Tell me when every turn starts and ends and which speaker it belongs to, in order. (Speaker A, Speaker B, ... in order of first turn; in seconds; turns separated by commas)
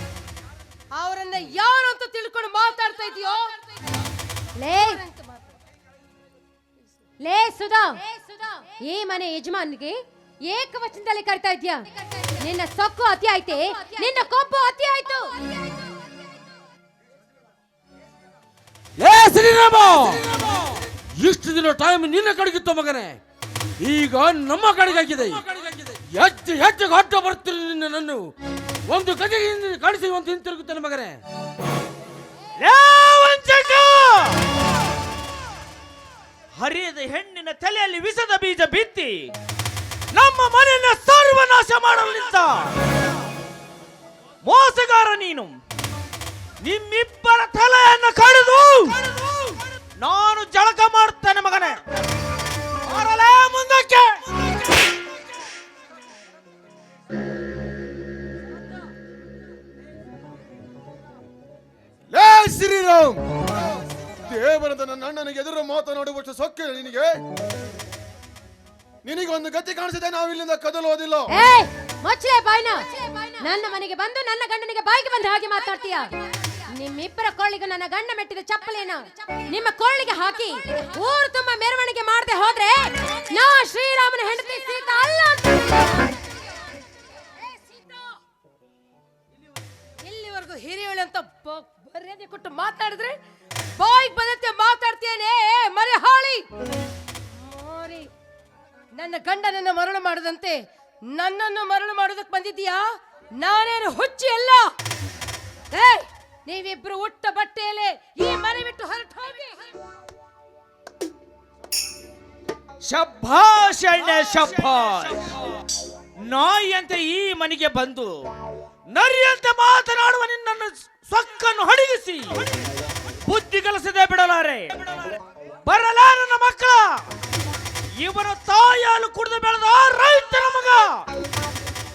Speaker A: 0.9-3.5, Speaker A: 4.6-5.5, Speaker B: 7.2-8.0, Speaker B: 8.8-11.8, Speaker B: 12.4-15.3, Speaker C: 19.0-23.2, Speaker C: 23.8-28.3, Speaker C: 28.9-31.2, Speaker D: 32.6-34.4, Speaker D: 36.5-39.3, Speaker D: 40.1-42.7, Speaker D: 44.4-45.5, Speaker D: 46.6-49.0, Speaker D: 50.0-51.8, Speaker D: 52.9-54.2, Speaker E: 62.1-63.2, Speaker E: 64.2-67.2, Speaker E: 69.0-71.3, Speaker B: 71.3-76.1, Speaker B: 76.7-85.5, Speaker A: 90.0-93.2, Speaker A: 93.8-96.4, Speaker A: 97.4-98.1, Speaker A: 98.9-100.6, Speaker A: 101.1-102.8, Speaker A: 103.4-104.6, Speaker A: 105.7-109.7, Speaker D: 112.8-115.3, Speaker D: 116.2-118.2, Speaker D: 118.9-122.4, Speaker D: 123.2-124.8, Speaker D: 125.7-127.0, Speaker D: 128.0-131.0